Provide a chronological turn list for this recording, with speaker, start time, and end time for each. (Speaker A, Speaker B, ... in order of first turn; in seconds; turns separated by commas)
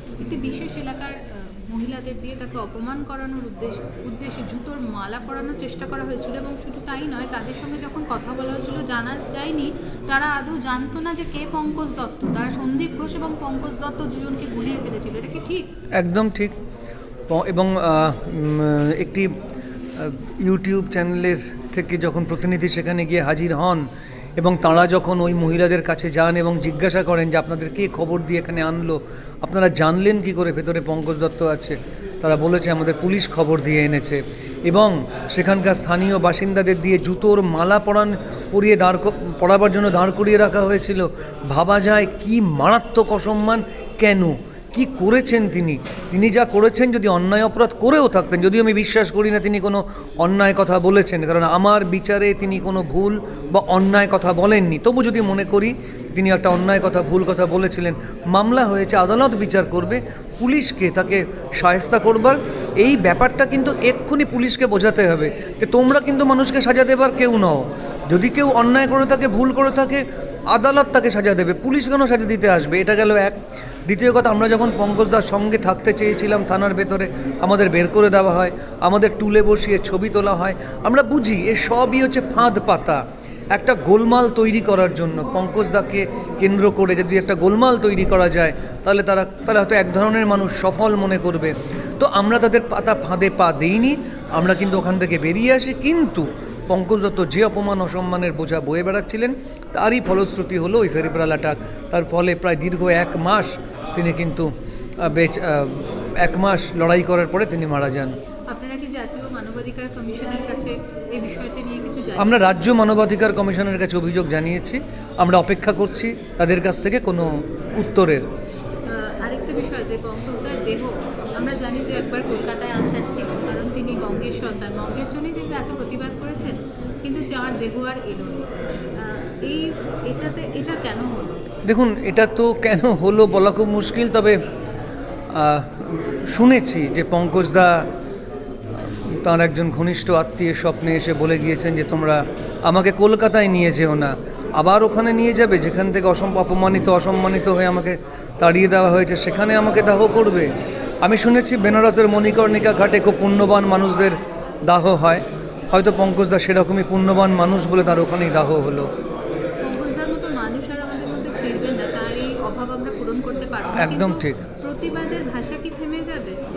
Speaker A: 0.2-15.7, Speaker B: 16.0-16.6, Speaker B: 17.3-19.3, Speaker B: 20.0-83.0, Speaker B: 83.5-108.2, Speaker A: 108.5-112.5, Speaker B: 112.2-118.2, Speaker A: 118.9-131.4, Speaker B: 131.7-134.4, Speaker B: 135.3-137.9, Speaker B: 139.1-150.5, Speaker B: 151.0-158.9, Speaker A: 159.6-166.4, Speaker B: 163.8-164.4